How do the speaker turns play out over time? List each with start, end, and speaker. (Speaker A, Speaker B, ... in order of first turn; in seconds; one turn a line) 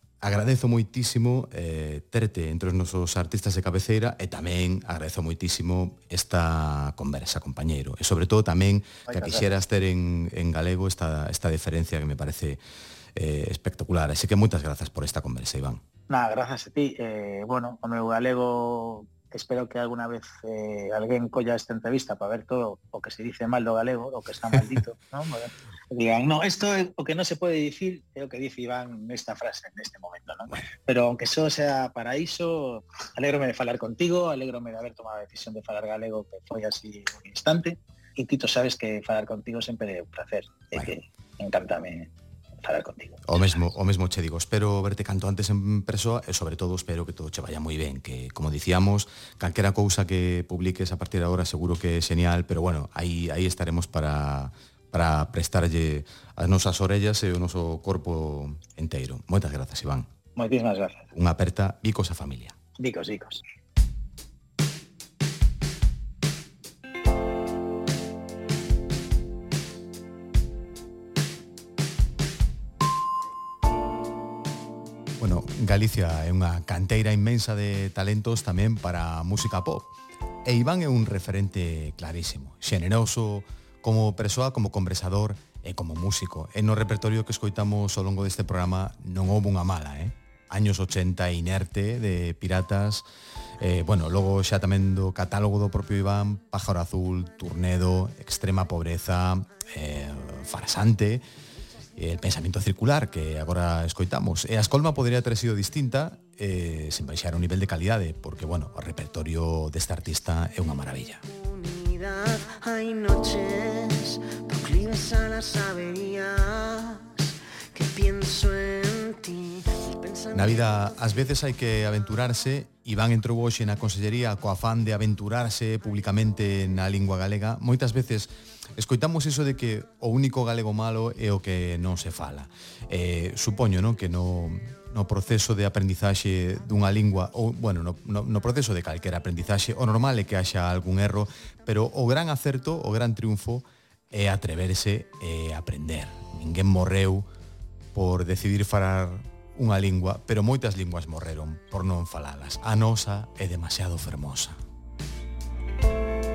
Speaker A: 0.2-12.6
Speaker B: 9.1-9.5
Speaker A: 13.1-15.8
Speaker B: 16.1-42.1
Speaker B: 42.6-43.6
Speaker A: 43.2-60.1
Speaker B: 60.4-61.1
Speaker A: 61.1-62.5
Speaker B: 62.8-63.4
Speaker A: 75.2-93.0
Speaker A: 93.6-101.2
Speaker A: 102.0-111.2
Speaker C: 111.2-120.9
Speaker A: 120.3-147.3
Speaker A: 147.9-154.6